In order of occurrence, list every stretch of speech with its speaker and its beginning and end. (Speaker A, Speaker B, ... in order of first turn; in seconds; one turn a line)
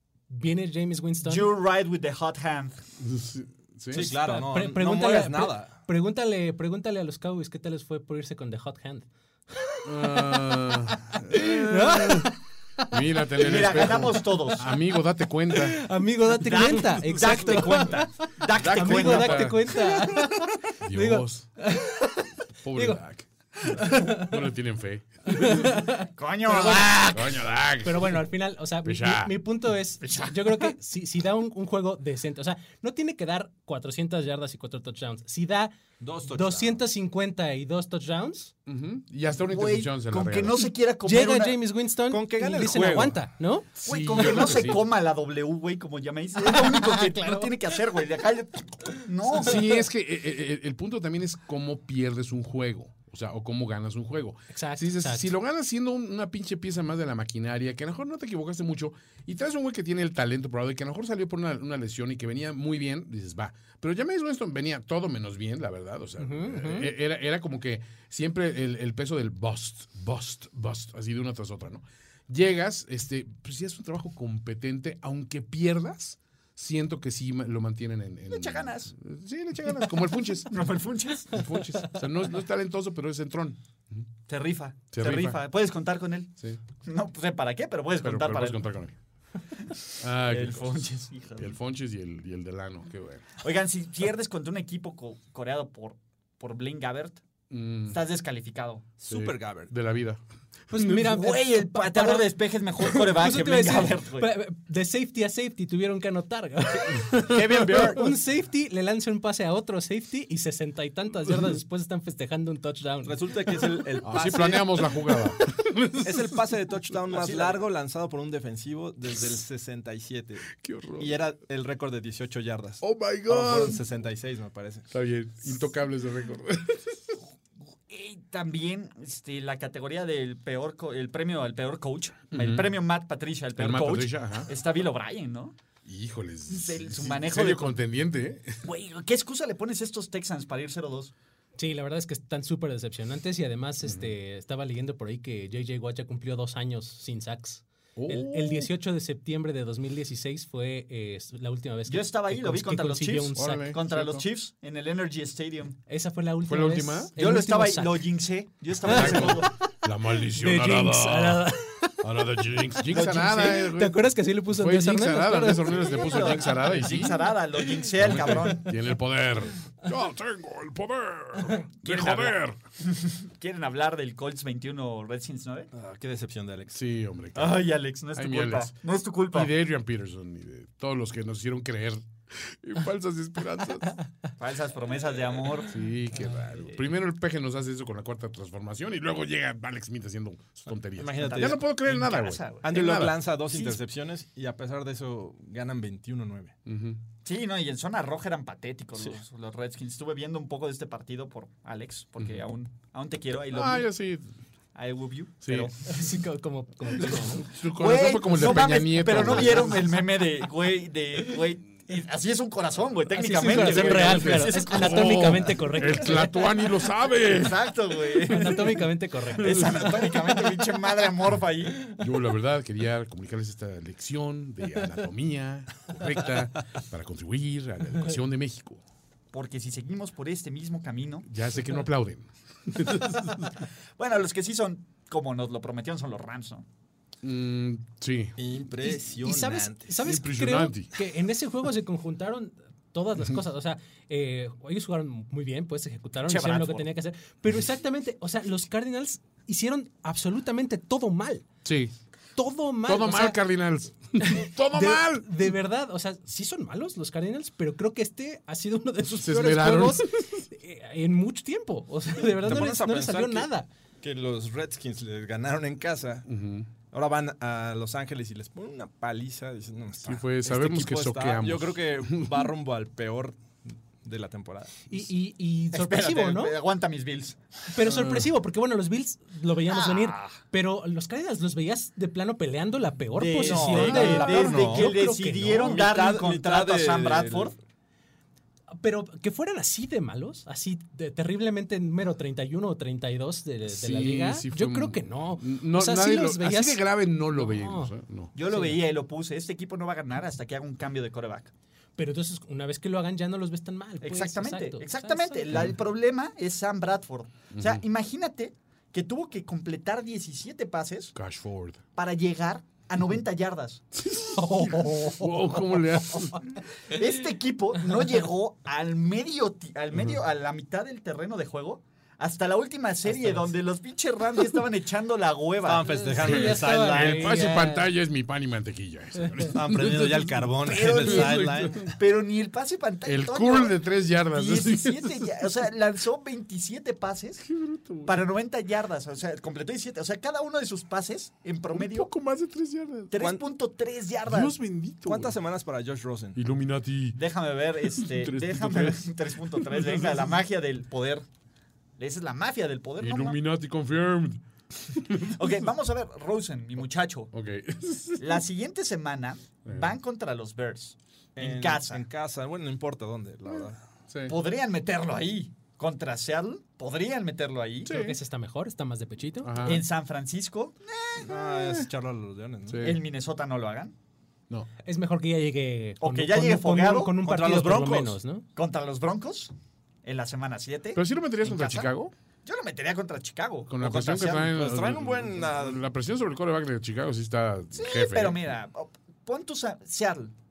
Speaker A: 0.3-1.5
Speaker B: 1.2-2.8
Speaker C: 3.0-4.1
Speaker D: 3.9-5.8
Speaker A: 3.9-13.0
Speaker C: 9.8-12.3
Speaker C: 12.9-15.8
Speaker B: 13.4-14.7
Speaker A: 13.6-14.0
Speaker A: 15.5-18.1
Speaker B: 16.4-20.4
Speaker C: 18.5-19.8
Speaker A: 18.6-23.0
Speaker C: 20.8-21.5
Speaker C: 22.6-25.8
Speaker A: 23.7-24.4
Speaker A: 25.3-27.2
Speaker B: 26.2-27.4
Speaker C: 27.1-28.2
Speaker A: 27.8-35.8
Speaker C: 28.8-29.3
Speaker B: 30.0-30.7
Speaker D: 36.0-36.8
Speaker A: 36.3-38.5
Speaker C: 38.6-40.7
Speaker B: 39.5-41.6
Speaker A: 41.0-44.5
Speaker D: 42.1-43.2
Speaker C: 43.8-44.8
Speaker B: 43.8-49.6
Speaker A: 46.4-47.6
Speaker C: 49.3-80.6
Speaker A: 54.5-55.3
Speaker A: 66.2-66.9
Speaker B: 78.3-78.9
Speaker B: 80.5-81.4
Speaker C: 81.3-84.0
Speaker B: 84.3-86.3
Speaker C: 84.9-85.4
Speaker B: 86.8-88.6
Speaker C: 88.0-89.0
Speaker B: 89.7-91.5
Speaker C: 90.0-93.2
Speaker B: 93.4-97.2
Speaker C: 97.5-98.0
Speaker B: 97.9-98.8
Speaker D: 99.0-99.7
Speaker C: 99.1-101.2
Speaker A: 100.7-113.8
Speaker B: 101.0-104.3
Speaker B: 107.3-108.1
Speaker D: 113.0-114.9
Speaker C: 114.0-116.4
Speaker D: 116.0-124.9
Speaker B: 117.1-117.6
Speaker C: 120.6-121.2
Speaker C: 122.8-123.8
Speaker C: 124.9-127.2
Speaker B: 127.9-135.6
Speaker C: 132.3-132.7
Speaker C: 133.6-134.5
Speaker C: 135.8-138.6
Speaker B: 136.5-137.8
Speaker B: 138.6-141.1
Speaker A: 141.6-153.8
Speaker C: 143.8-144.1
Speaker C: 147.9-148.7
Speaker B: 151.9-155.8
Speaker C: 153.3-154.2
Speaker A: 155.9-158.1
Speaker C: 156.4-157.1
Speaker B: 157.2-159.5
Speaker A: 158.8-159.5
Speaker C: 158.8-167.2
Speaker A: 160.3-162.2
Speaker B: 162.9-163.7
Speaker A: 162.9-167.2
Speaker B: 165.7-168.7
Speaker C: 168.0-172.6
Speaker B: 171.8-175.7
Speaker D: 175.7-176.8
Speaker C: 176.7-178.7
Speaker B: 177.3-179.5
Speaker C: 179.3-183.9
Speaker B: 184.4-185.7
Speaker C: 185.7-193.2
Speaker D: 191.0-191.6
Speaker B: 191.2-192.7
Speaker D: 192.6-196.5
Speaker C: 196.7-197.0
Speaker B: 197.2-203.9
Speaker C: 203.5-204.3
Speaker B: 204.7-205.9
Speaker C: 205.4-205.7
Speaker A: 205.8-207.4
Speaker C: 207.0-209.9
Speaker B: 207.0-215.5
Speaker A: 213.1-216.8
Speaker C: 213.5-218.8
Speaker B: 217.3-221.8
Speaker A: 218.2-219.9
Speaker C: 219.3-220.3
Speaker C: 221.9-228.8
Speaker B: 229.3-231.2
Speaker C: 231.2-233.6
Speaker B: 234.0-236.6
Speaker C: 237.2-238.4
Speaker D: 238.4-240.0
Speaker A: 238.8-251.4
Speaker C: 240.0-240.9
Speaker B: 246.2-246.9
Speaker C: 251.6-251.9
Speaker A: 252.3-253.4
Speaker C: 252.8-255.6
Speaker A: 254.2-263.7
Speaker C: 259.2-260.4
Speaker D: 262.4-263.5
Speaker D: 264.0-266.3
Speaker C: 266.2-266.7
Speaker D: 266.9-274.9
Speaker C: 270.0-272.5
Speaker A: 274.9-276.6
Speaker B: 275.7-277.4
Speaker A: 277.7-285.8
Speaker C: 277.8-278.3
Speaker B: 279.7-280.4
Speaker B: 283.1-287.5
Speaker D: 283.4-287.5
Speaker A: 288.7-297.9
Speaker C: 293.7-298.3
Speaker B: 298.3-301.5
Speaker A: 298.5-298.8
Speaker A: 302.0-305.7
Speaker B: 304.0-311.1
Speaker C: 307.5-307.8
Speaker C: 311.1-311.8
Speaker B: 311.9-313.8
Speaker C: 313.9-316.4
Speaker A: 314.3-315.5
Speaker B: 316.8-326.0
Speaker C: 319.9-320.2
Speaker D: 325.6-327.5
Speaker A: 325.8-327.9
Speaker C: 326.2-331.9
Speaker D: 329.5-331.9
Speaker B: 330.6-333.8
Speaker C: 333.1-335.5
Speaker B: 334.3-337.4
Speaker C: 337.4-338.2
Speaker B: 338.0-342.1
Speaker C: 341.7-343.1
Speaker B: 343.1-344.5
Speaker C: 344.2-345.4
Speaker D: 345.0-346.4
Speaker C: 346.3-347.2
Speaker B: 347.1-351.2
Speaker C: 347.8-350.4
Speaker B: 352.0-353.4
Speaker C: 353.0-355.5
Speaker B: 355.2-357.3
Speaker C: 357.3-358.4
Speaker B: 358.2-362.0
Speaker C: 359.6-359.9
Speaker D: 361.4-363.8
Speaker C: 364.1-364.4
Speaker B: 364.3-367.9
Speaker C: 367.9-368.2
Speaker A: 367.9-369.8
Speaker C: 369.4-369.8
Speaker B: 369.6-371.5
Speaker D: 371.2-372.9
Speaker C: 371.4-371.9
Speaker C: 372.7-373.0
Speaker B: 372.8-373.9
Speaker A: 374.8-378.4
Speaker B: 376.0-377.1
Speaker D: 377.2-378.2
Speaker B: 378.5-379.5
Speaker B: 380.0-381.9
Speaker C: 380.9-382.1
Speaker B: 382.4-384.5
Speaker C: 383.7-388.4
Speaker D: 384.4-385.8
Speaker B: 387.7-390.3